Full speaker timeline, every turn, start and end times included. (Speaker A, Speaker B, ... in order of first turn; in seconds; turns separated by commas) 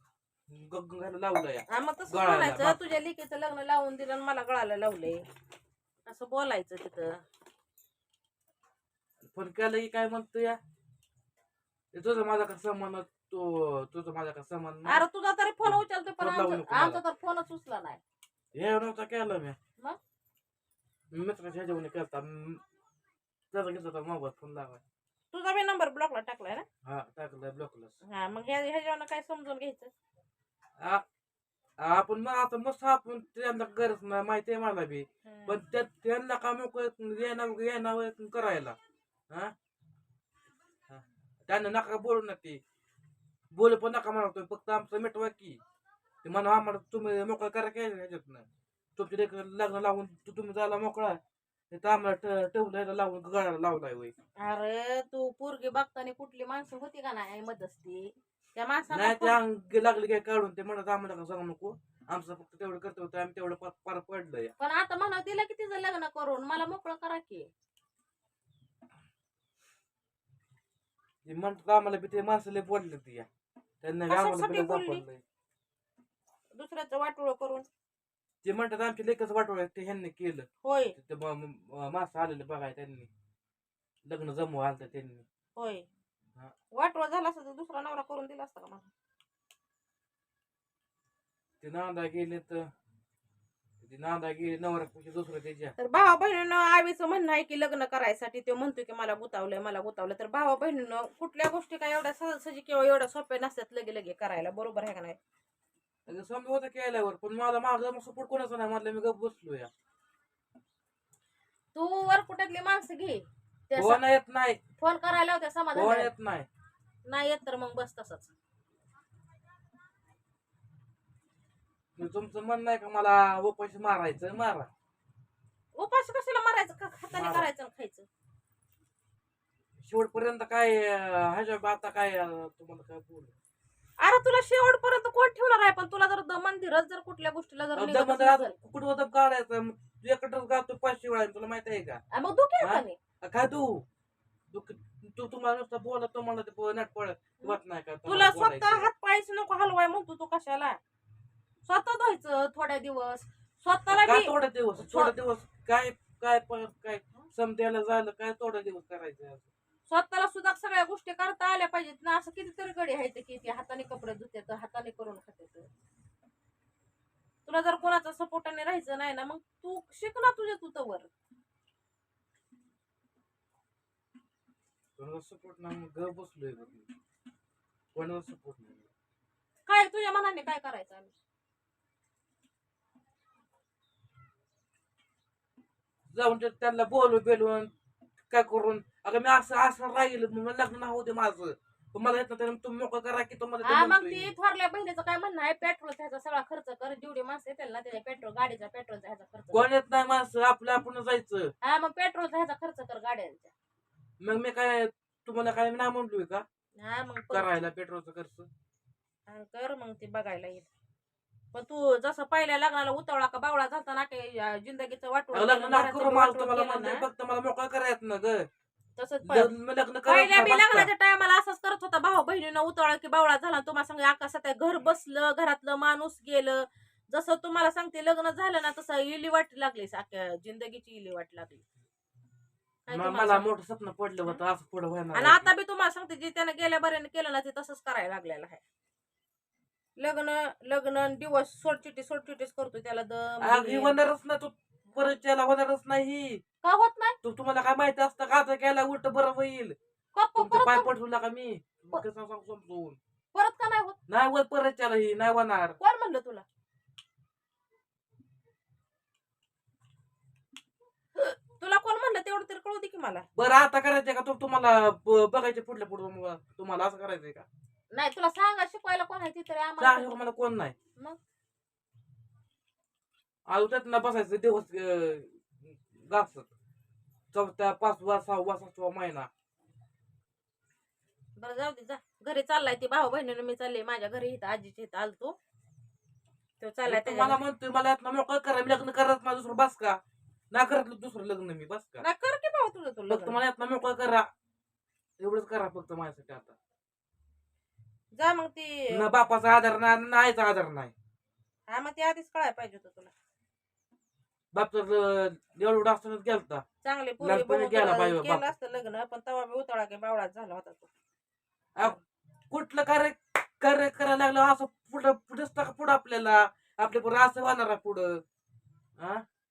Speaker A: 0.5-2.8, Speaker B: 1.7-5.2, Speaker B: 6.0-7.2, Speaker A: 9.2-10.6, Speaker A: 11.9-15.0, Speaker B: 14.8-18.0, Speaker A: 15.6-17.0, Speaker A: 18.5-19.6, Speaker A: 21.1-22.6, Speaker A: 23.5-24.8, Speaker B: 25.3-26.6, Speaker A: 26.8-27.9, Speaker B: 28.1-29.9, Speaker A: 30.8-31.0, Speaker A: 31.8-38.8, Speaker B: 35.2-35.6, Speaker A: 40.9-42.6, Speaker A: 43.5-45.6, Speaker A: 46.2-51.2, Speaker A: 51.7-54.1, Speaker B: 54.4-59.4, Speaker A: 58.9-64.5, Speaker B: 64.6-67.5, Speaker A: 71.2-73.3, Speaker A: 73.8-75.2, Speaker B: 74.1-75.0, Speaker B: 76.5-77.7, Speaker A: 78.4-83.1, Speaker B: 80.6-81.0, Speaker A: 84.0-85.2, Speaker B: 85.5-85.9, Speaker B: 86.7-88.9, Speaker A: 91.6-92.7, Speaker A: 93.8-95.8, Speaker B: 95.8-105.2, Speaker A: 106.1-109.7, Speaker B: 111.7-114.0, Speaker A: 113.7-114.6, Speaker B: 114.8-116.1, Speaker A: 115.7-116.5, Speaker B: 117.0-118.3, Speaker A: 122.0-124.7, Speaker B: 125.7-128.1, Speaker A: 127.1-127.5, Speaker A: 129.8-133.3, Speaker B: 134.0-138.5, Speaker A: 137.8-142.0, Speaker B: 142.1-143.0, Speaker A: 142.6-143.8, Speaker A: 144.5-148.9, Speaker B: 147.4-150.8, Speaker B: 151.6-155.1, Speaker A: 153.9-159.5, Speaker B: 159.9-165.7, Speaker B: 167.4-171.1, Speaker A: 175.0-176.9, Speaker A: 177.9-178.9, Speaker B: 179.7-181.1, Speaker A: 186.1-187.7, Speaker A: 188.3-194.3, Speaker B: 193.6-199.6, Speaker A: 199.5-201.5, Speaker B: 201.6-203.5, Speaker A: 204.2-206.4, Speaker B: 206.8-207.5, Speaker A: 207.3-208.5, Speaker B: 209.3-210.7, Speaker B: 211.5-217.0, Speaker A: 215.3-218.5, Speaker B: 219.0-219.5, Speaker A: 219.2-220.9, Speaker B: 220.0-231.6, Speaker B: 232.9-233.5, Speaker A: 232.9-235.5, Speaker B: 235.1-238.6, Speaker B: 240.0-244.0, Speaker A: 243.4-246.4, Speaker B: 246.6-247.2, Speaker A: 247.2-249.8, Speaker B: 250.1-250.9, Speaker A: 250.4-253.0, Speaker B: 253.3-254.0, Speaker A: 254.1-255.8, Speaker B: 255.8-256.4, Speaker B: 261.1-263.3, Speaker A: 263.4-267.4, Speaker B: 267.9-270.2, Speaker A: 269.8-270.7, Speaker A: 273.5-276.5, Speaker A: 277.3-279.3, Speaker B: 281.4-285.4, Speaker B: 286.6-287.4, Speaker A: 286.8-290.0, Speaker A: 290.5-292.0, Speaker B: 292.0-293.4, Speaker A: 293.1-294.3, Speaker A: 295.2-296.5, Speaker B: 298.1-299.0, Speaker A: 298.9-300.9, Speaker B: 301.7-303.1, Speaker A: 304.5-306.6, Speaker B: 306.8-310.9, Speaker A: 307.2-308.5, Speaker A: 312.5-318.2, Speaker A: 319.0-319.2